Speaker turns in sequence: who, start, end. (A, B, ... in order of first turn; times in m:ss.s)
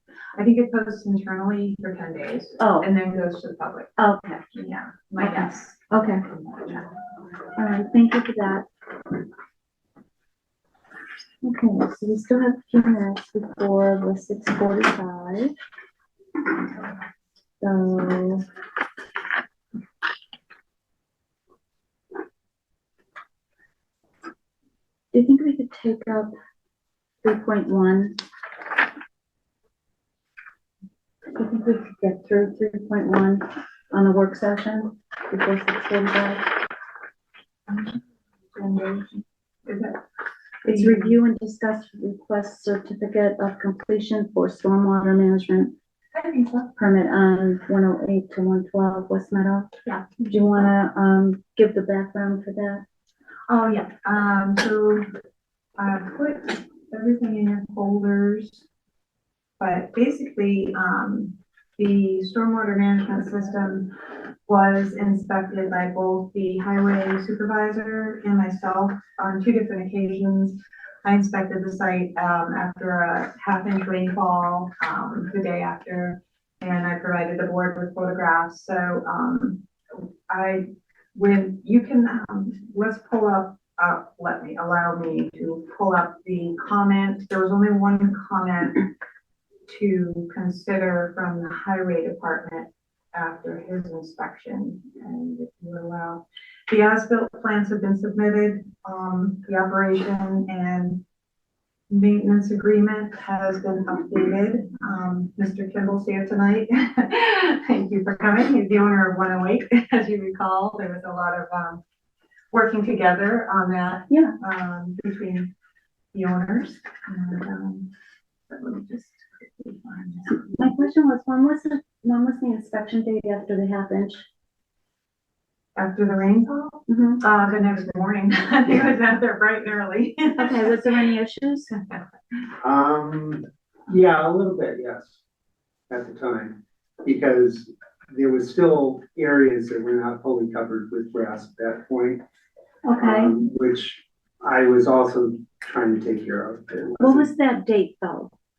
0:00.4-0:04.0 A
0:02.6-0:02.9 B
0:04.0-0:04.4 B
0:04.5-0:06.8 A
0:05.2-0:06.2 B
0:07.6-0:08.6 B
0:11.4-0:15.5 B
0:17.6-0:18.4 B
0:25.1-0:26.3 B
0:27.2-0:28.2 B
0:31.4-0:36.6 B
0:37.7-0:38.0 A
0:38.5-0:40.0 A
0:40.6-0:41.1 A
0:40.6-0:45.7 B
0:46.1-0:46.7 A
0:46.8-0:49.7 B
0:49.8-0:50.2 A
0:50.2-0:52.8 B
0:53.5-0:55.1 A
0:55.8-0:58.6 A
0:59.6-1:03.9 A
1:04.4-1:28.9 A
1:29.7-1:41.0 A
1:41.9-1:51.8 A
1:52.5-1:55.5 A
1:54.1-1:54.3 B
1:56.1-1:57.9 A
1:58.5-2:00.6 A
2:00.4-2:04.2 B
2:05.8-2:11.0 A
2:06.9-2:07.2 B
2:10.4-2:11.7 B
2:11.8-2:12.0 A
2:12.6-2:15.2 C
2:15.9-2:22.2 C
2:22.8-2:23.3 B
2:23.0-2:27.3 C
2:27.0-2:28.3 B